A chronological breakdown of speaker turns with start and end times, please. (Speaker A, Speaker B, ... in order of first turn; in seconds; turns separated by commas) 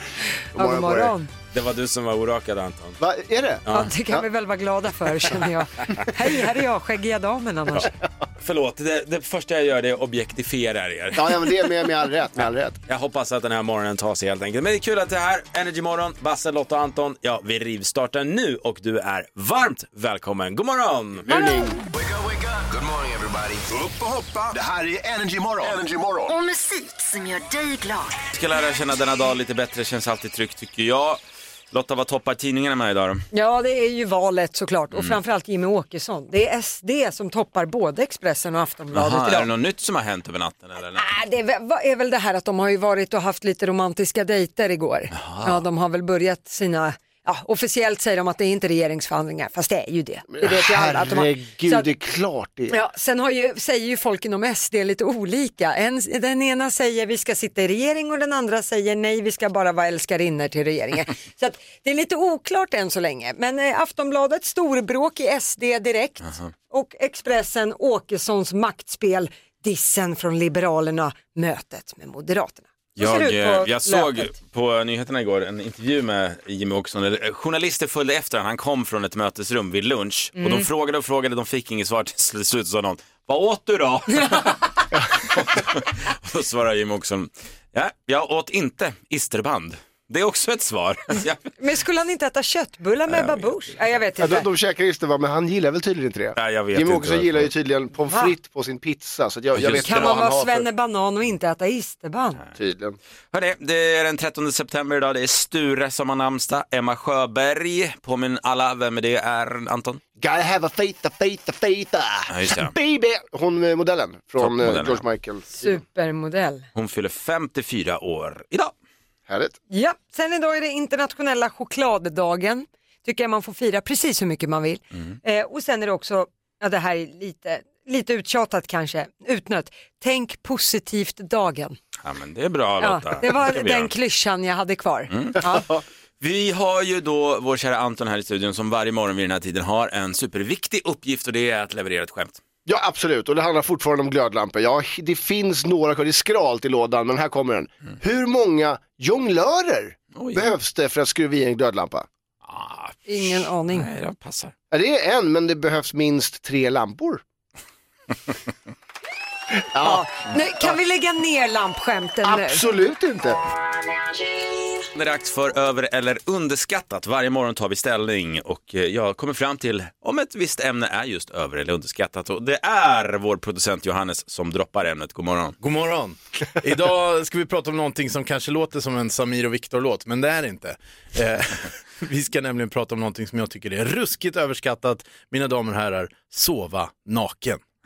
Speaker A: 0.5-1.1, Speaker B: 0.6-1.3, Speaker C: 1.5-3.0, Speaker A: 3.0-4.2, Speaker B: 3.7-7.9, Speaker A: 7.9-8.3, Speaker C: 8.4-11.6, Speaker A: 11.2-12.8, Speaker C: 12.9-21.4, Speaker A: 21.3-21.8, Speaker D: 21.9-26.4, Speaker E: 26.3-28.2, Speaker C: 28.3-33.2, Speaker B: 33.3-39.5, Speaker C: 34.9-35.2, Speaker C: 38.9-41.0, Speaker B: 41.0-51.9, Speaker C: 45.1-45.6, Speaker A: 50.3-52.8, Speaker B: 52.7-74.3, Speaker C: 66.2-66.5, Speaker C: 73.0-84.6, Speaker B: 80.4-80.7, Speaker B: 84.1-84.6, Speaker C: 85.1-91.5, Speaker B: 91.6-94.5, Speaker C: 93.1-93.6, Speaker A: 94.2-100.7, Speaker C: 96.4-97.5, Speaker C: 99.5-100.2, Speaker B: 99.6-102.4, Speaker A: 102.6-103.0, Speaker C: 103.3-110.0, Speaker A: 110.2-115.8, Speaker C: 112.3-112.7, Speaker C: 114.4-115.0, Speaker B: 115.5-116.7, Speaker C: 116.8-118.7, Speaker A: 119.3-119.6, Speaker B: 119.7-131.8, Speaker C: 132.0-133.9, Speaker B: 132.8-135.7, Speaker C: 135.1-142.4, Speaker A: 135.5-135.8, Speaker A: 142.7-152.1, Speaker C: 150.2-150.5, Speaker C: 152.5-154.5, Speaker B: 153.1-153.9, Speaker A: 154.7-157.2, Speaker A: 159.7-160.1, Speaker B: 159.8-162.6, Speaker A: 162.2-163.4, Speaker C: 164.9-175.6, Speaker F: 175.6-187.6